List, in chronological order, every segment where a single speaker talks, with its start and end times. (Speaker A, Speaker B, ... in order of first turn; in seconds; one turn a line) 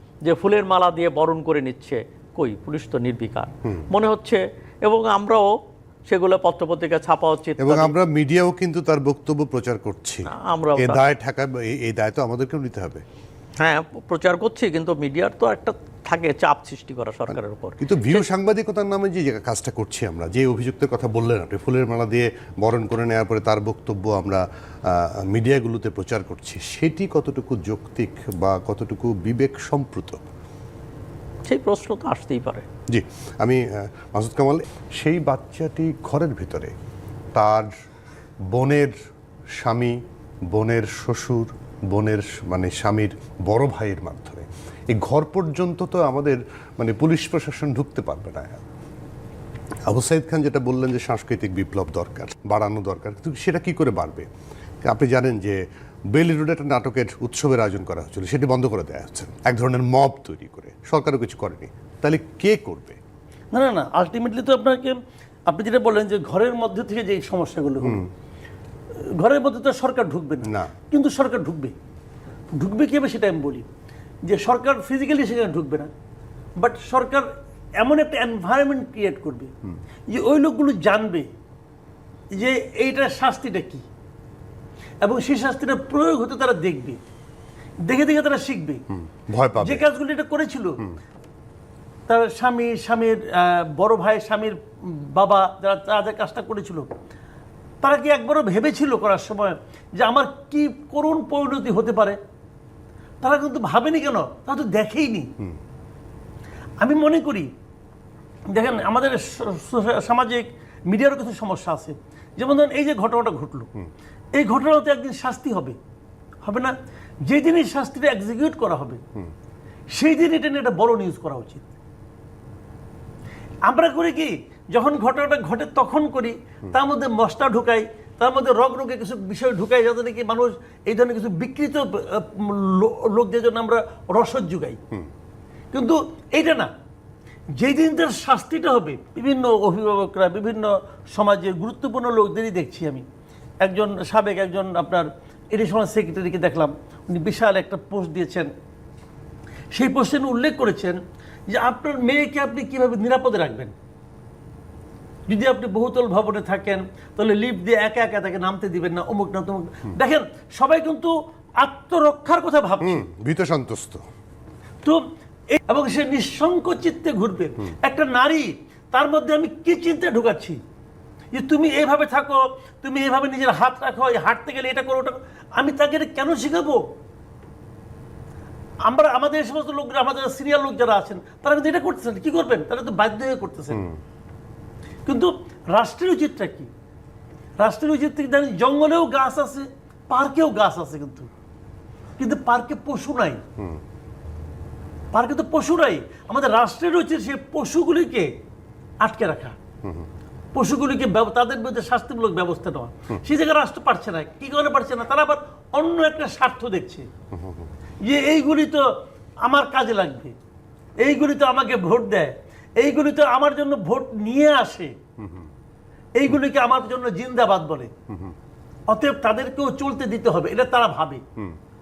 Speaker A: 0.2-5.5
Speaker A: 6.1-7.9
Speaker B: 7.6-13.0
Speaker A: 10.3-11.0
Speaker A: 13.6-18.2
Speaker B: 17.8-30.2
Speaker A: 31.5-32.6
Speaker B: 32.9-36.7
Speaker B: 37.3-37.7
Speaker B: 38.5-38.9
Speaker B: 39.6-40.0
Speaker B: 40.5-48.6
Speaker B: 49.9-54.3
Speaker B: 54.8-63.0
Speaker C: 63.5-68.0
Speaker C: 69.2-71.7
Speaker C: 72.5-73.6
Speaker C: 74.2-75.9
Speaker C: 76.6-77.2
Speaker C: 77.8-79.5
Speaker C: 80.1-81.2
Speaker C: 82.3-83.8
Speaker C: 85.0-87.0
Speaker C: 87.8-88.8
Speaker B: 89.1-89.8
Speaker C: 89.6-90.8
Speaker C: 92.1-96.9
Speaker C: 97.8-102.2
Speaker C: 103.2-105.3
Speaker C: 106.8-107.5
Speaker C: 108.5-113.7
Speaker C: 114.3-115.8
Speaker C: 116.4-116.7
Speaker C: 117.2-119.0
Speaker C: 119.9-121.7
Speaker C: 123.6-134.8
Speaker C: 135.7-136.7
Speaker C: 137.6-143.0
Speaker C: 143.6-148.5
Speaker C: 149.7-151.0
Speaker C: 151.5-153.7
Speaker C: 155.3-163.0
Speaker B: 162.8-164.0
Speaker C: 164.8-170.6
Speaker C: 171.3-176.8
Speaker C: 178.8-183.9
Speaker C: 185.1-186.7
Speaker C: 187.6-191.3
Speaker C: 192.2-193.4
Speaker C: 195.1-198.3
Speaker C: 199.0-199.6
Speaker C: 200.5-207.1
Speaker B: 207.3-207.6
Speaker C: 208.0-208.8
Speaker C: 209.4-210.3
Speaker C: 211.0-214.9
Speaker C: 216.2-217.9
Speaker C: 218.9-221.2